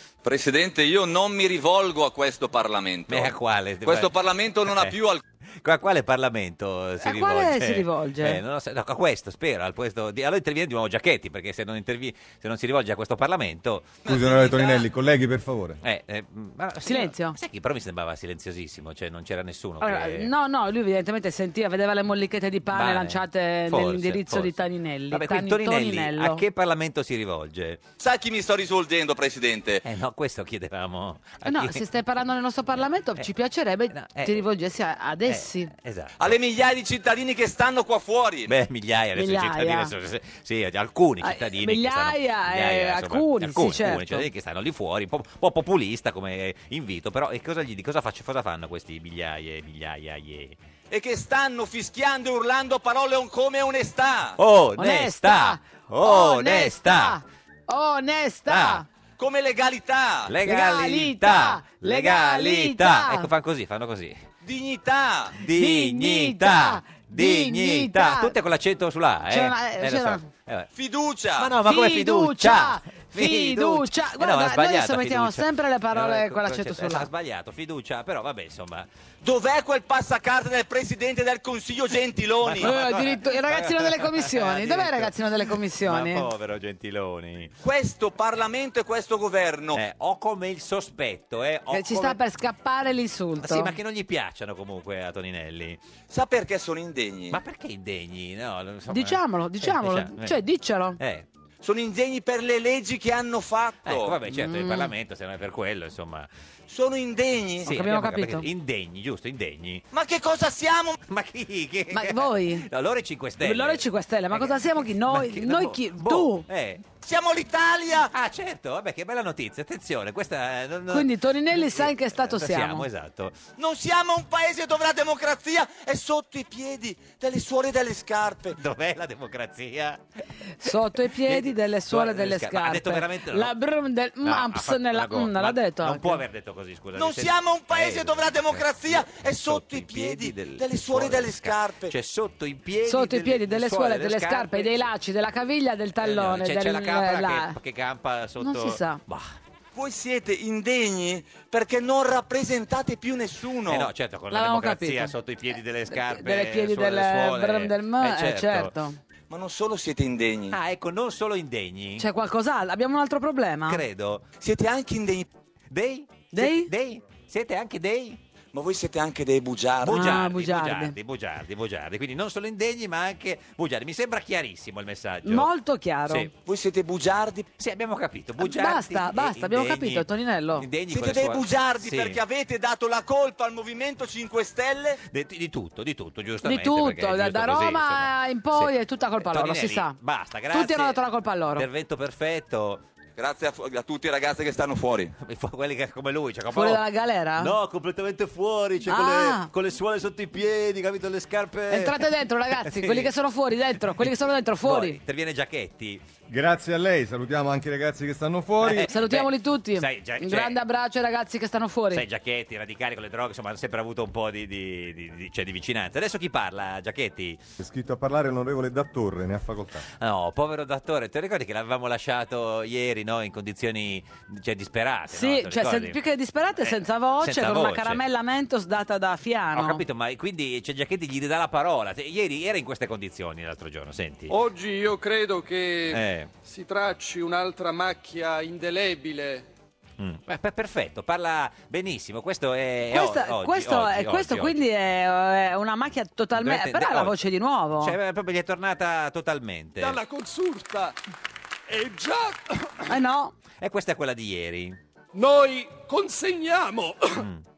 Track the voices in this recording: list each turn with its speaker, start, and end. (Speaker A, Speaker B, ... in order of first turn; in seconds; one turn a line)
Speaker A: 0.2-5.2
Speaker B: 3.1-4.1
Speaker B: 4.6-4.9
Speaker B: 5.6-13.9
Speaker C: 7.0-8.4
Speaker A: 14.1-14.8
Speaker D: 14.1-15.8
Speaker B: 15.8-20.3
Speaker C: 16.8-17.4
Speaker C: 19.8-26.4
Speaker B: 22.7-24.6
Speaker B: 25.1-27.8
Speaker A: 28.0-29.8
Speaker B: 29.8-31.8
Speaker C: 31.4-35.7
Speaker B: 33.9-34.4
Speaker B: 35.3-36.4
Speaker A: 36.2-38.5
Speaker B: 38.5-50.6
Speaker C: 39.1-39.9
Speaker C: 41.2-44.2
Speaker A: 50.9-54.4
Speaker B: 54.4-57.2
Speaker C: 54.8-58.8
Speaker B: 58.5-58.8
Speaker A: 59.2-60.3
Speaker B: 60.3-64.2
Speaker C: 60.4-63.3
Speaker A: 64.4-65.3
Speaker B: 65.4-70.7
Speaker C: 65.4-68.3
Speaker C: 69.3-70.2
Speaker A: 70.7-71.5
Speaker B: 71.4-78.9
Speaker C: 71.6-77.1
Speaker A: 79.2-82.7
Speaker B: 82.4-87.5
Speaker C: 82.6-86.2
Speaker A: 87.6-89.8
Speaker B: 89.7-92.2
Speaker C: 91.7-93.7
Speaker B: 93.4-95.8
Speaker A: 96.1-97.4
Speaker B: 97.3-100.4
Speaker C: 98.9-101.0
Speaker B: 101.0-101.2
Speaker A: 101.6-104.2
Speaker B: 103.8-106.3
Speaker C: 104.3-104.9
Speaker A: 106.7-107.7
Speaker B: 107.6-109.8
Speaker C: 107.6-108.5
Speaker A: 109.9-111.0
Speaker B: 111.0-116.9
Speaker C: 111.9-112.7
Speaker C: 113.4-116.5
Speaker A: 117.0-118.1
Speaker B: 118.1-123.4
Speaker C: 120.9-122.8
Speaker A: 123.6-128.6
Speaker B: 128.6-130.0
Speaker C: 130.6-136.2
Speaker B: 130.7-133.5
Speaker B: 134.2-144.9
Speaker A: 136.9-141.9
Speaker C: 142.8-147.6
Speaker B: 146.0-149.3
Speaker C: 148.4-149.0
Speaker A: 149.7-153.9
Speaker B: 153.7-158.7
Speaker C: 154.3-155.1
Speaker C: 155.9-159.0
Speaker A: 159.3-160.6
Speaker B: 160.5-162.1
Speaker C: 162.0-163.8
Speaker B: 163.7-164.2
Speaker A: 164.4-165.3
Speaker B: 165.7-168.2
Speaker C: 166.3-166.7
Speaker A: 168.5-170.0
Speaker B: 169.8-175.5
Speaker C: 169.8-170.9
Speaker C: 175.2-176.3
Speaker A: 176.4-177.5
Speaker B: 177.6-182.2
Speaker C: 178.4-180.7
Speaker A: 180.9-185.0
Speaker B: 185.1-191.0
Speaker C: 186.4-189.9
Speaker C: 190.5-191.7
Speaker B: 191.6-192.8
Speaker A: 193.2-195.1
Speaker B: 195.2-196.8
Speaker C: 196.5-197.5
Speaker B: 197.4-202.0
Speaker C: 198.8-199.5
Speaker C: 201.7-205.0
Speaker B: 202.6-203.1
Speaker B: 204.6-206.0
Speaker D: 206.3-208.9
Speaker B: 208.7-210.6
Speaker C: 208.7-212.0
Speaker B: 211.9-217.4
Speaker D: 217.6-219.8
Speaker B: 220.0-226.0
Speaker C: 225.1-229.8
Speaker B: 226.6-228.0
Speaker B: 229.5-234.3
Speaker E: 234.3-239.4
Speaker B: 235.9-236.3
Speaker B: 240.0-244.6
Speaker C: 242.9-247.9
Speaker B: 246.3-247.2
Speaker B: 247.8-250.0
Speaker E: 249.8-250.9
Speaker E: 251.7-253.0
Speaker C: 252.9-253.3
Speaker B: 253.6-254.8
Speaker E: 255.1-257.2
Speaker B: 257.2-257.4